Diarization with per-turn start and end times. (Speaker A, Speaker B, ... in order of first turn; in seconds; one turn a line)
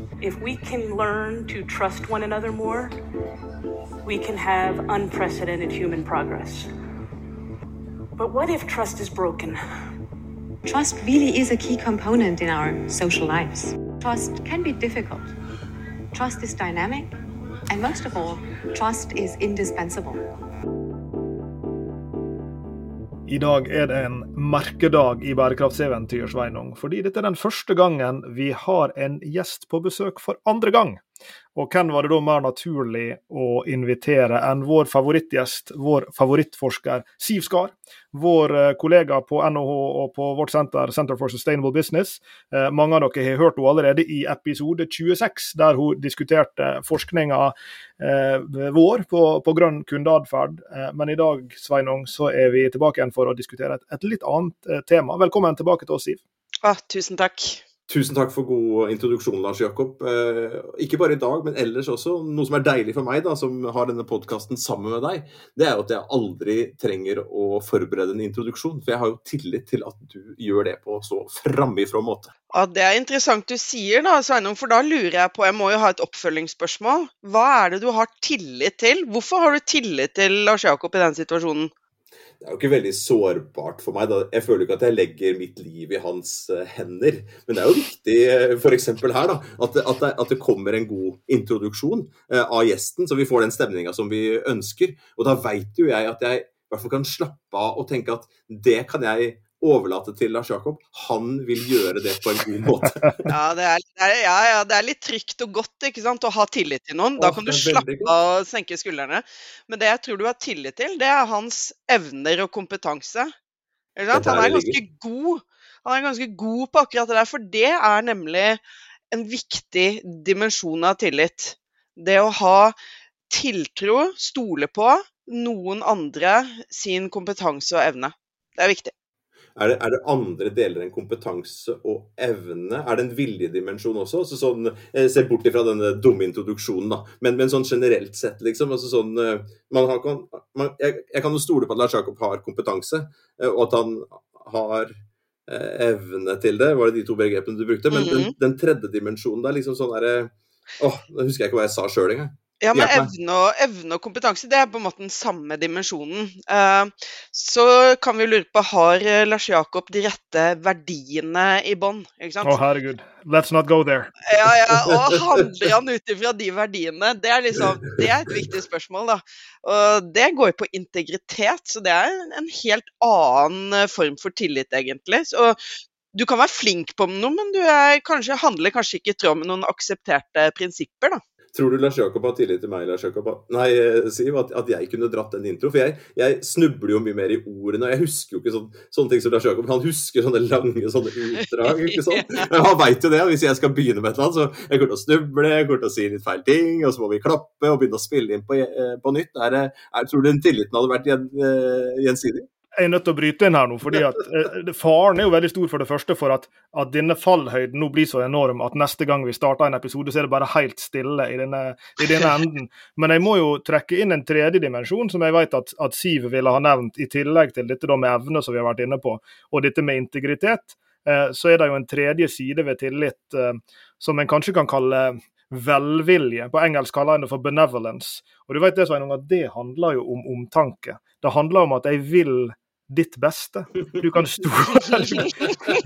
Speaker A: 0.2-2.9
Speaker A: 4.0-6.7
Speaker A: 8.2-9.6
Speaker B: 10.6-15.3
Speaker B: 16.1-17.1
Speaker B: 17.7-20.2
Speaker C: 23.3-31.0
Speaker C: 31.5-56.2
Speaker D: 56.6-57.6
Speaker E: 57.9-72.3
Speaker D: 72.5-81.7
Speaker E: 82.4-103.3
Speaker D: 103.3-113.3
Speaker E: 107.2-108.1
Speaker D: 114.0-118.6
Speaker E: 114.1-114.8
Speaker D: 119.1-122.7
Speaker D: 123.3-128.9
Speaker E: 129.6-153.1
Speaker D: 147.9-148.3
Speaker D: 152.6-162.6
Speaker C: 162.4-164.1
Speaker D: 164.3-175.6
Speaker E: 164.9-165.4
Speaker D: 176.1-181.2
Speaker E: 181.5-202.5
Speaker D: 191.6-192.4
Speaker C: 202.8-235.4